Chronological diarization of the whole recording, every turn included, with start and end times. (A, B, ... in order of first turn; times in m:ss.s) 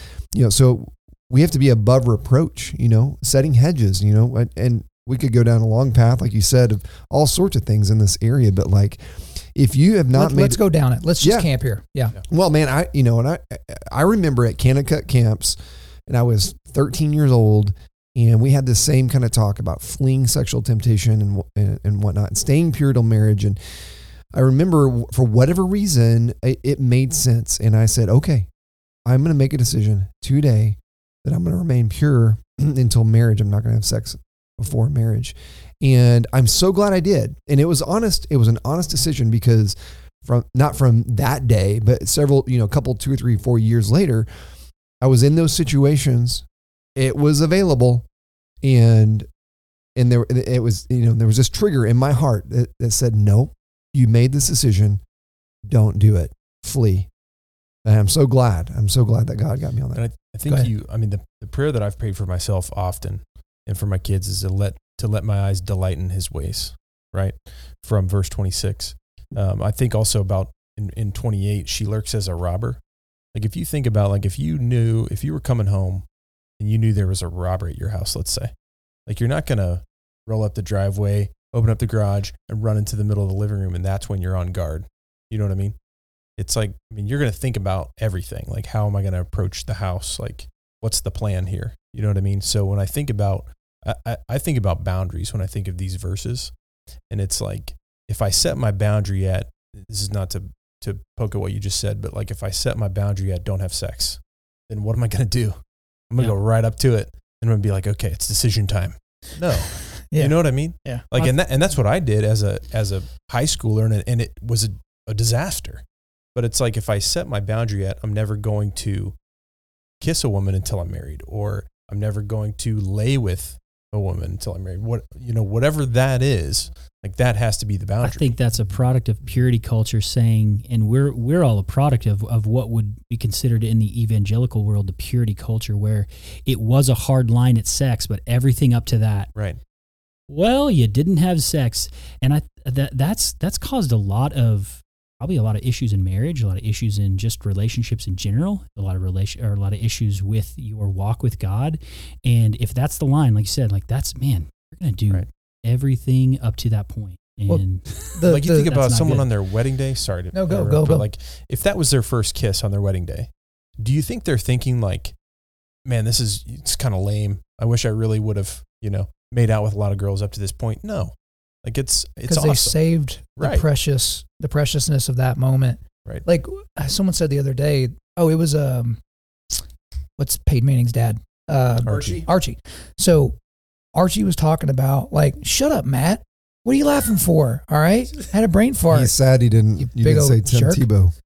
0:00.3-0:10.6 A
0:10.1-0:12.2 B
0:11.2-0:11.5 A
0:12.3-0:15.6 A
0:16.1-0:23.6 A
0:24.3-0:28.5 A
0:29.0-0:44.3 A
0:45.0-0:46.4 A
0:47.0-0:48.0 A
0:48.6-0:49.3 A
0:50.0-0:55.0 A
0:55.6-0:57.1 A
0:57.8-1:00.0 A
0:59.9-1:12.8 C
1:13.3-1:16.0 C
1:16.6-1:18.5 C
1:19.1-1:25.8 C
1:26.4-1:36.5 C
1:37.1-1:55.8 C
1:49.9-1:51.3 B
1:56.3-1:59.2 C
2:00.0-2:08.3 C
2:08.0-2:19.3 D
2:20.3-2:39.3 D
2:37.5-2:38.7 B
2:38.2-2:45.1 C
2:40.3-2:41.0 B
2:45.8-2:52.8 C
2:52.3-2:59.0 B
2:53.4-2:53.6 C
3:00.2-3:03.4 B
3:01.8-3:02.2 C
3:03.9-3:09.1 B
3:08.9-3:11.1 A
3:09.8-3:10.9 B